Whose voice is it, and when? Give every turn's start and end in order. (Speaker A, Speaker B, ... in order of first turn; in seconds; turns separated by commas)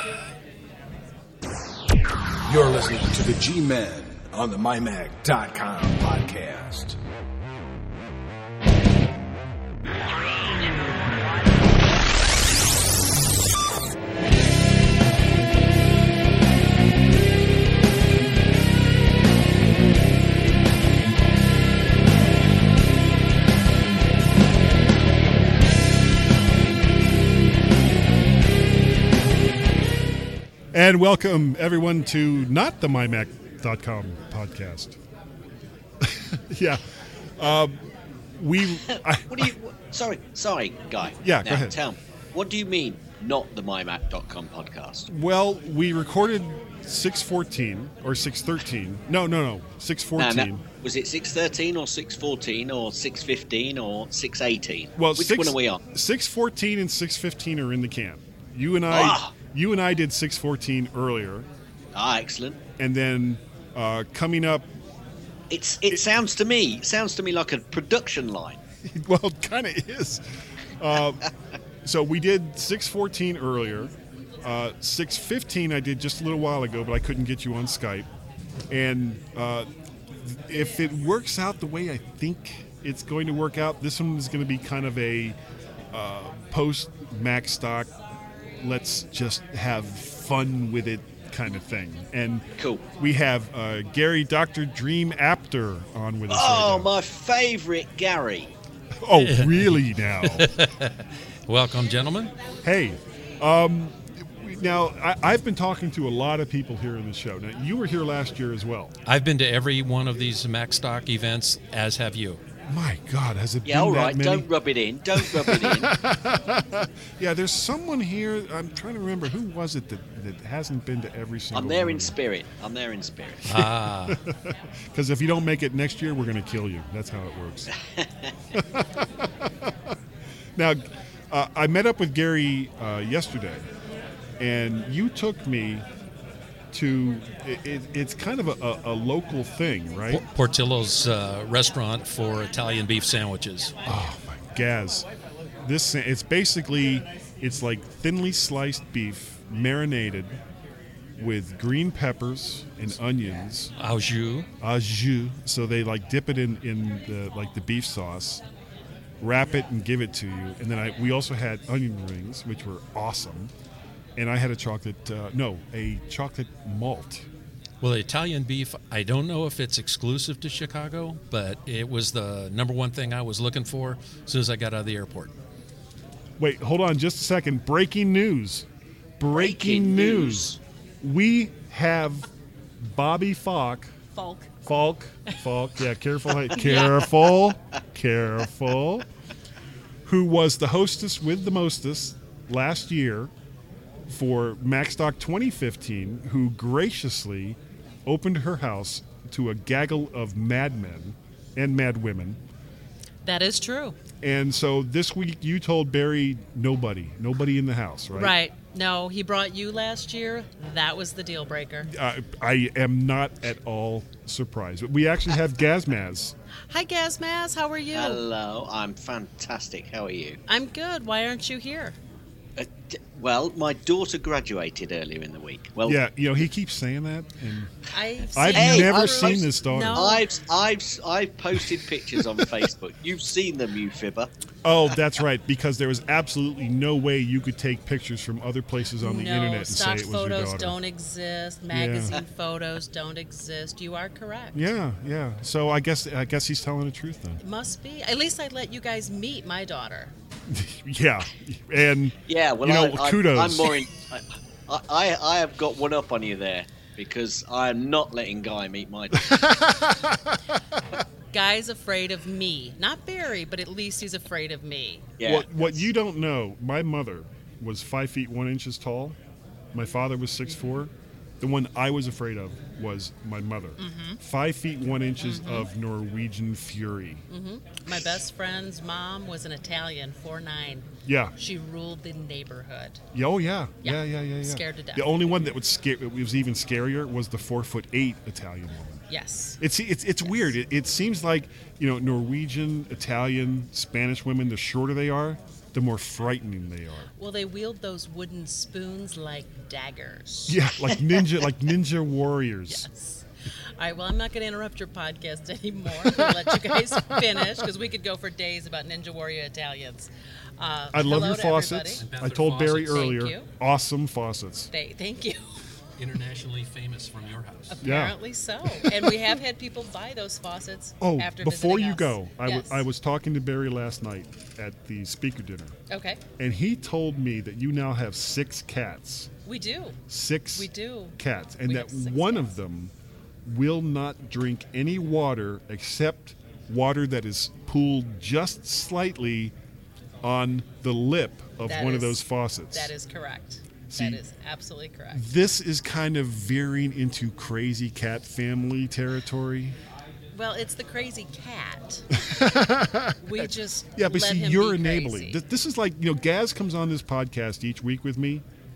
Speaker A: 2.5-7.0, Speaker B: 30.7-35.0, Speaker B: 36.0-36.8, Speaker B: 37.4-37.8, Speaker B: 38.4-39.5, Speaker C: 38.9-45.1, Speaker B: 41.2-41.8, Speaker B: 45.1-50.6, Speaker C: 50.2-55.8, Speaker B: 55.0-61.5, Speaker C: 58.9-59.3, Speaker C: 61.9-62.6, Speaker B: 62.8-64.7, Speaker C: 65.5-68.6, Speaker B: 68.8-70.2, Speaker B: 70.8-71.3, Speaker B: 71.8-78.1, Speaker B: 78.7-85.3, Speaker B: 85.9-87.9, Speaker B: 88.6-96.9, Speaker C: 92.6-92.8, Speaker C: 96.3-98.5, Speaker B: 99.0-100.5, Speaker D: 99.1-102.3, Speaker B: 102.6-108.9, Speaker D: 109.0-112.4, Speaker B: 112.7-114.5, Speaker C: 113.6-115.9, Speaker B: 115.1-122.2, Speaker C: 121.5-123.5, Speaker D: 123.5-124.2, Speaker B: 123.5-127.7, Speaker C: 128.0-128.3, Speaker B: 128.5-129.9, Speaker B: 131.3-133.6, Speaker B: 134.4-135.9, Speaker B: 136.7-140.2, Speaker D: 140.1-143.7, Speaker B: 143.8-145.1, Speaker B: 145.6-150.4, Speaker B: 151.2-153.7, Speaker D: 153.8-154.5, Speaker B: 154.6-158.4, Speaker B: 159.2-163.5, Speaker B: 164.2-167.3, Speaker D: 167.8-175.3, Speaker B: 176.4-178.7, Speaker B: 179.2-182.3, Speaker C: 179.3-180.6, Speaker B: 182.8-183.9, Speaker E: 184.1-184.5, Speaker B: 184.6-189.0, Speaker E: 186.5-187.0, Speaker B: 190.0-193.3, Speaker B: 194.1-202.4, Speaker E: 203.2-204.0, Speaker B: 204.2-208.3, Speaker E: 208.1-211.9, Speaker B: 211.8-216.3, Speaker E: 216.7-218.2, Speaker C: 217.9-220.4, Speaker E: 220.5-221.9, Speaker C: 222.6-226.0, Speaker B: 225.8-227.7, Speaker E: 227.9-230.2, Speaker B: 228.3-230.1, Speaker C: 228.5-234.3, Speaker B: 234.6-240.8, Speaker E: 239.0-244.7, Speaker B: 241.7-242.2, Speaker B: 244.5-247.4, Speaker E: 247.4-250.1, Speaker B: 250.5-253.8, Speaker C: 252.3-259.4, Speaker B: 259.3-259.8, Speaker E: 261.3-265.9, Speaker C: 265.2-265.5, Speaker B: 265.2-269.2, Speaker B: 269.7-277.2, Speaker E: 273.8-274.2, Speaker E: 275.2-275.7, Speaker E: 277.3-283.0, Speaker B: 281.1-281.3, Speaker B: 283.1-289.0, Speaker E: 283.8-285.1, Speaker E: 289.1-289.6, Speaker B: 289.6-297.1, Speaker E: 297.1-300.6, Speaker B: 300.5-302.9, Speaker E: 302.7-303.2, Speaker E: 303.8-312.1, Speaker B: 310.9-314.7, Speaker D: 312.0-313.2, Speaker E: 312.9-313.5, Speaker E: 314.7-315.6, Speaker D: 316.0-317.8, Speaker E: 317.7-322.8, Speaker B: 317.8-318.1, Speaker B: 318.7-319.1, Speaker B: 321.0-325.7, Speaker E: 325.9-326.2, Speaker B: 326.4-329.3, Speaker E: 329.4-331.1, Speaker B: 330.1-332.9, Speaker E: 331.6-332.6, Speaker B: 333.4-339.5, Speaker B: 340.2-342.9, Speaker E: 341.7-345.2, Speaker B: 343.9-344.2, Speaker B: 345.1-349.8, Speaker E: 350.3-352.2, Speaker B: 352.2-358.4, Speaker E: 353.2-355.4